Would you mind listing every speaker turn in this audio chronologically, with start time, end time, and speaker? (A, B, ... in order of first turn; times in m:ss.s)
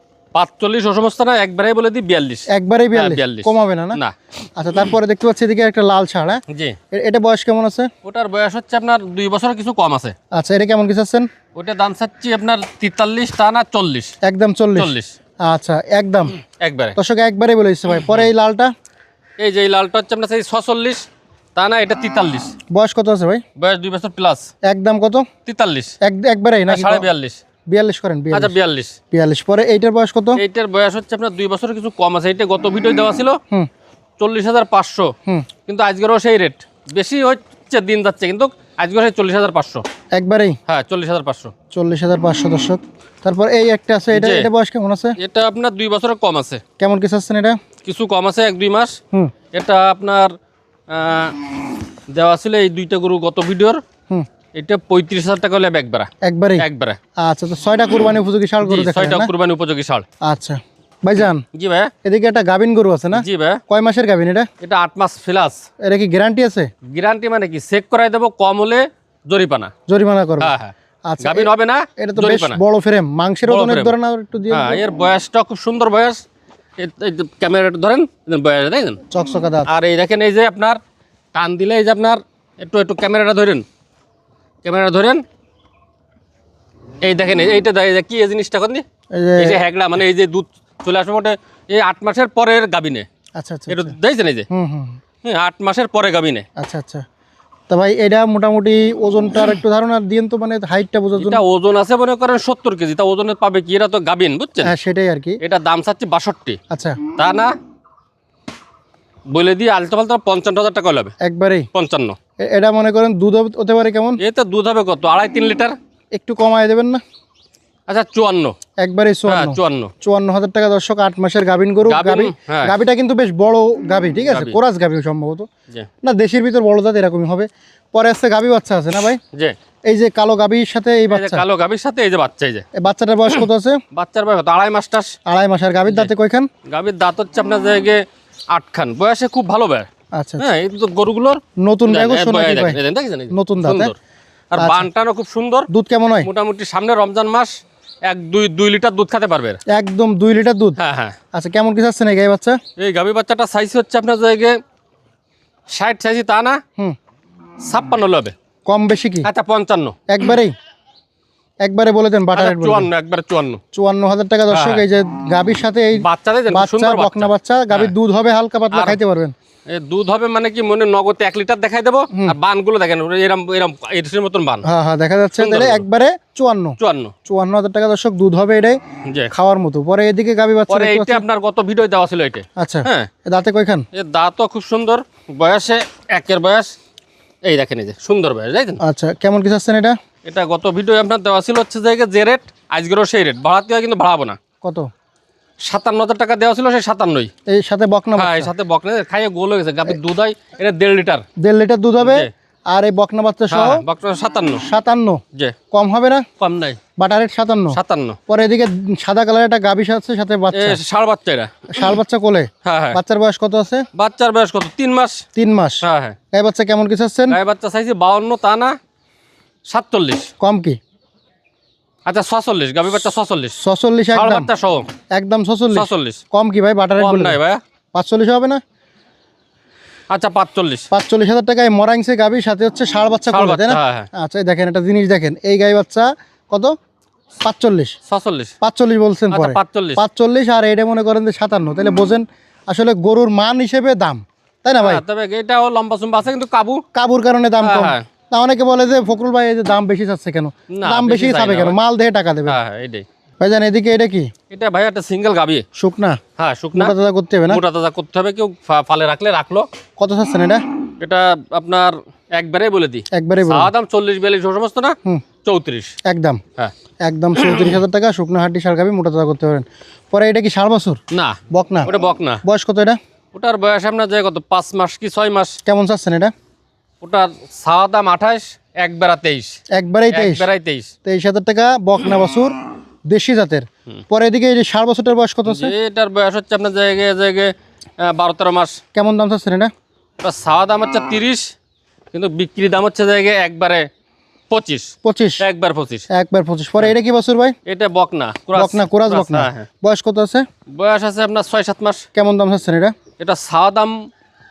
0:00.3-0:04.2 A
0:02.5-0:04.0 B
0:04.6-0:06.4 B
0:06.5-0:06.8 A
0:06.9-0:07.9 B
0:08.0-0:10.2 A
0:10.3-0:11.3 B
0:11.6-0:14.1 A
0:14.2-0:14.9 B
0:14.8-0:15.1 A
0:15.4-0:16.4 B
0:16.4-0:17.0 A
0:17.0-0:18.7 B
0:17.9-0:18.3 A
0:19.4-0:22.6 A
0:22.7-0:23.4 B
0:23.6-0:24.5 A
0:24.6-0:25.3 B
0:25.4-0:26.0 A
0:26.0-0:27.1 B
0:26.7-0:27.4 A
0:27.7-0:28.6 B
0:28.3-0:29.0 A
0:29.1-0:30.4 B
0:30.4-0:33.4 A
0:34.2-0:39.8 A
0:40.2-0:40.6 B
0:40.7-0:41.6 A
0:41.7-0:45.2 B
0:44.1-0:44.5 A
0:45.2-0:46.6 A
0:46.8-0:47.6 B
0:47.8-0:49.0 A
0:49.5-0:50.3 A
0:50.9-0:53.8 A
0:54.5-0:57.0 A
0:56.2-0:56.7 B
0:57.2-0:59.3 B
0:58.6-1:00.1 A
1:00.2-1:01.4 B
1:01.5-1:01.9 A
1:02.0-1:04.5 B
1:03.1-1:03.6 A
1:04.6-1:05.6 A
1:05.8-1:06.7 B
1:06.9-1:09.7 A
1:09.9-1:10.6 B
1:10.4-1:12.6 A
1:11.1-1:14.8 B
1:13.4-1:14.0 A
1:14.5-1:16.2 A
1:16.8-1:19.0 A
1:19.1-1:19.7 B
1:19.7-1:20.8 A
1:21.3-1:23.6 A
1:24.6-1:25.2 A
1:27.0-1:28.8 A
1:29.1-1:29.6 B
1:29.4-1:33.1 A
1:33.4-1:34.0 B
1:33.7-1:34.5 A
1:34.5-1:35.0 B
1:35.2-1:36.5 A
1:36.6-1:37.0 B
1:37.7-1:41.4 B
1:41.2-1:44.8 A
1:44.6-1:45.4 B
1:45.4-1:47.5 A
1:46.7-1:47.0 B
1:49.3-1:51.2 A
1:51.2-1:51.7 B
1:51.7-1:52.2 A
1:52.4-1:54.2 B
1:54.2-1:55.8 A
1:56.1-1:57.0 B
1:57.9-1:58.6 A
1:58.8-2:05.5 B
1:59.3-1:59.9 A
2:01.8-2:02.8 A
2:04.3-2:04.6 A
2:06.0-2:09.2 B
2:09.3-2:09.6 A
2:09.9-2:11.4 B
2:11.1-2:12.7 A
2:12.8-2:13.8 B
2:13.3-2:15.2 A
2:15.3-2:16.5 B
2:15.9-2:16.1 A
2:16.7-2:18.0 A
2:18.5-2:19.9 A
2:20.2-2:20.5 B
2:20.4-2:24.0 A
2:21.6-2:22.8 B
2:23.3-2:23.9 B
2:24.5-2:25.7 A
2:24.6-2:24.9 B
2:25.7-2:26.3 B
2:26.2-2:27.5 A
2:28.1-2:29.6 A
2:29.7-2:30.8 B
2:30.8-2:31.2 A
2:31.3-2:32.6 B
2:32.8-2:34.6 A
2:35.7-2:36.6 A
2:37.6-2:38.4 A
2:38.7-2:39.3 B
2:39.2-2:40.1 A
2:40.1-2:40.5 B
2:41.6-2:42.9 B
2:42.3-2:43.6 A
2:43.7-2:49.3 B
2:44.5-2:44.8 A
2:45.9-2:48.0 A
2:48.7-2:49.0 A
2:49.7-2:54.6 A
2:54.7-2:58.8 B
2:55.4-2:55.8 A
2:56.8-2:57.2 A
2:59.0-2:59.3 A
2:59.3-3:01.2 B
3:00.7-3:03.1 A
3:02.6-3:03.9 B
3:03.9-3:06.7 A
3:07.4-3:08.8 A
3:08.8-3:10.0 B
3:10.2-3:14.4 A
3:14.6-3:14.9 B
3:15.6-3:17.3 A
3:17.5-3:18.5 B
3:18.2-3:21.3 A
3:21.4-3:23.8 B
3:22.0-3:22.3 A
3:23.5-3:24.6 A
3:24.6-3:25.2 B
3:25.3-3:25.6 A
3:25.7-3:26.3 B
3:26.4-3:26.8 A
3:27.0-3:30.8 B
3:27.7-3:28.2 A
3:30.5-3:31.8 A
3:31.7-3:33.9 B
3:32.6-3:33.0 A
3:34.0-3:35.3 A
3:35.4-3:37.4 B
3:35.8-3:36.2 A
3:37.3-3:38.8 A
3:39.7-3:40.3 A
3:40.4-3:40.8 B
3:42.1-3:43.6 A
3:43.6-3:44.5 B
3:44.1-3:45.0 A
3:45.2-3:47.4 B
3:45.7-3:46.2 A
3:47.0-3:47.6 A
3:47.9-3:48.6 B
3:50.1-3:50.9 A
3:50.9-3:56.7 B
3:53.3-3:54.1 A
3:57.4-3:58.0 B
3:58.1-3:58.5 A
3:58.6-4:05.0 B
3:59.3-4:00.0 A
4:04.8-4:06.8 A
4:07.0-4:12.6 B
4:07.6-4:08.1 A
4:10.7-4:11.8 A
4:12.5-4:13.0 A
4:13.4-4:14.3 B
4:14.5-4:15.6 A
4:15.8-4:16.2 B
4:16.4-4:16.9 A
4:16.7-4:17.6 B
4:17.5-4:19.7 A
4:20.0-4:20.6 B
4:21.0-4:26.0 A
4:23.1-4:23.7 B
4:26.0-4:26.4 B
4:27.0-4:31.9 B
4:27.4-4:27.8 A
4:31.1-4:32.4 A
4:32.4-4:33.0 B
4:33.3-4:35.6 A
4:35.7-4:36.3 B
4:37.0-4:39.6 A
4:39.7-4:40.5 B
4:40.1-4:40.9 A
4:41.0-4:42.5 B
4:43.1-4:45.8 B
4:45.5-4:48.8 A
4:49.0-4:49.7 B
4:50.2-4:51.6 A
4:52.1-4:53.9 A
4:54.5-4:56.1 A
4:55.0-4:55.4 B
4:56.1-4:57.6 B
4:57.7-4:59.7 A
4:58.6-5:00.5 B
5:00.7-5:02.1 A
5:02.2-5:03.0 B
5:03.1-5:04.1 A